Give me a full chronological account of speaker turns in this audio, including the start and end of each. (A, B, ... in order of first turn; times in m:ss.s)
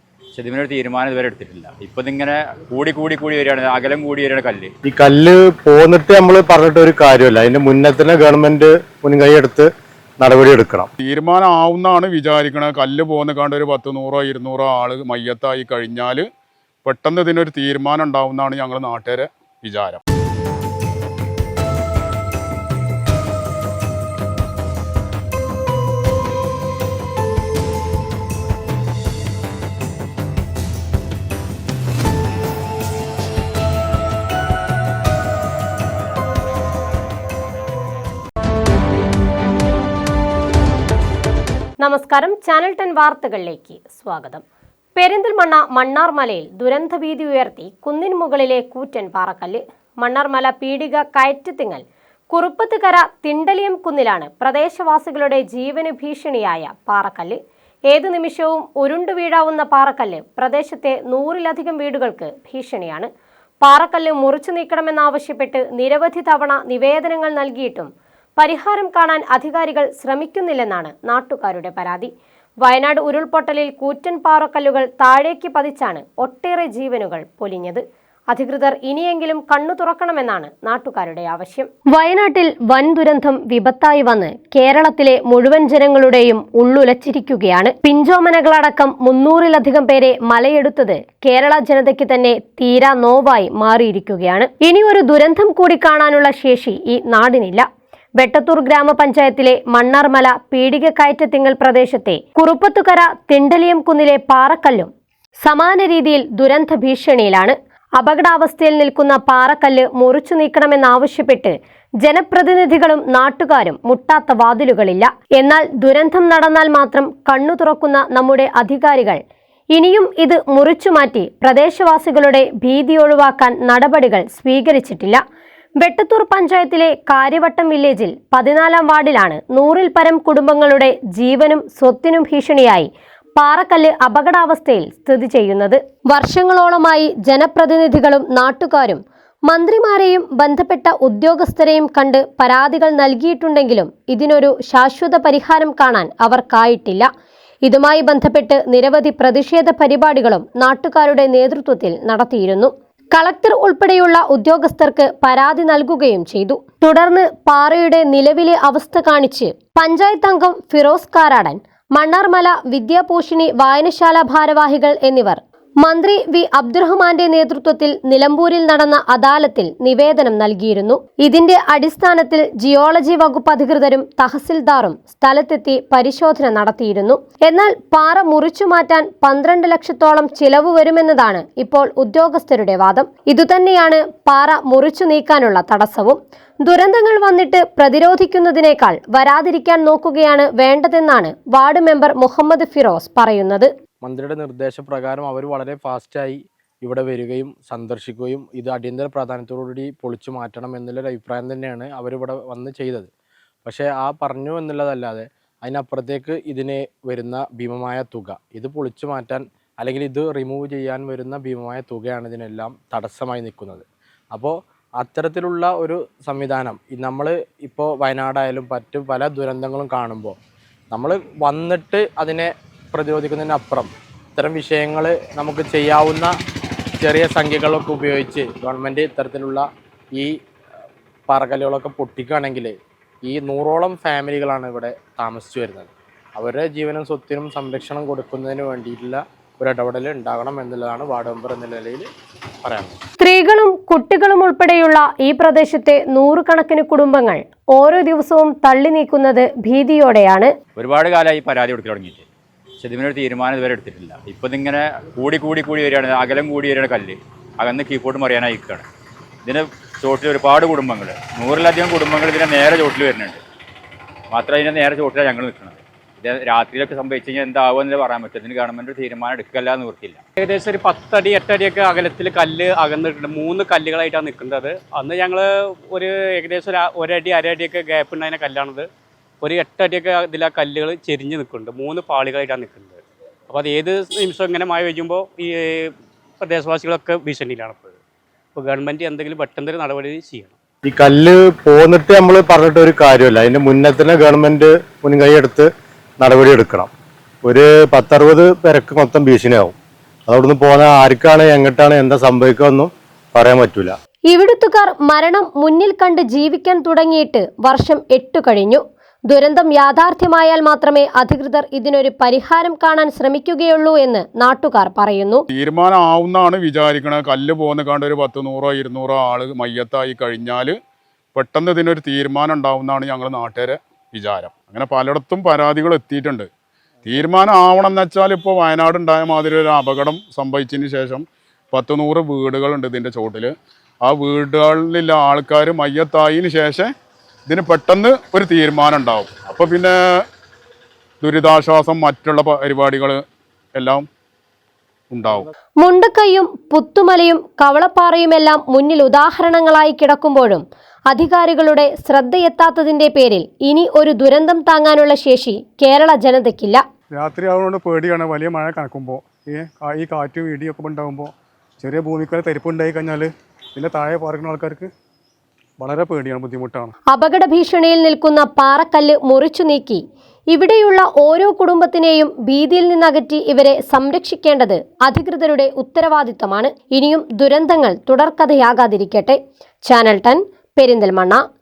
0:00.3-0:04.7 A
0:04.8-0:09.7 B
0:10.2-0:10.9 B
0:11.0-0:16.2 C
0:16.8-0:20.0 C
0:41.8-0:44.4 D
0:45.0-0:57.4 D
0:57.9-1:03.1 D
1:03.6-1:12.1 D
1:12.6-1:37.6 D
1:38.2-1:44.9 D
1:45.4-1:59.2 D
1:59.7-2:05.2 D
2:05.8-2:27.1 D
2:27.6-3:13.7 D
3:14.3-3:15.1 B
3:15.1-3:16.3 E
3:16.0-3:16.3 B
3:16.8-3:18.5 B
3:17.2-3:17.5 E
3:18.5-3:19.0 E
3:19.0-3:20.5 B
3:20.0-3:23.1 E
3:23.7-3:25.2 E
3:25.6-3:25.9 B
3:25.9-3:27.9 E
3:27.9-3:29.2 B
3:29.2-3:33.8 E
3:34.3-3:36.8 E
3:36.1-3:37.7 B
3:37.7-3:40.3 E
3:40.9-3:43.9 E
3:44.4-3:46.2 B
3:44.5-3:45.7 E
3:47.2-3:49.6 E
3:51.3-3:52.7 E
3:53.3-3:55.9 E
3:56.4-4:02.0 E
4:03.2-4:10.5 D
4:10.8-4:12.2 A
4:12.8-4:18.8 A
4:19.4-4:23.4 A
4:24.3-4:30.2 A
4:30.4-4:38.9 F
4:39.4-4:48.0 F
4:48.5-4:50.6 F
4:50.8-4:55.7 B
4:56.2-4:56.9 B
4:57.4-4:59.7 B
5:00.3-5:03.9 B
5:04.3-5:15.4 D
5:15.5-5:20.8 C
5:21.3-5:26.5 C
5:27.0-5:36.9 C
5:37.5-5:40.0 C
5:41.2-5:43.2 C
5:43.7-5:44.0 C
5:45.1-5:45.5 C
5:45.8-5:56.8 D
5:57.1-6:04.9 G
6:05.8-6:06.9 G
6:07.1-6:21.4 D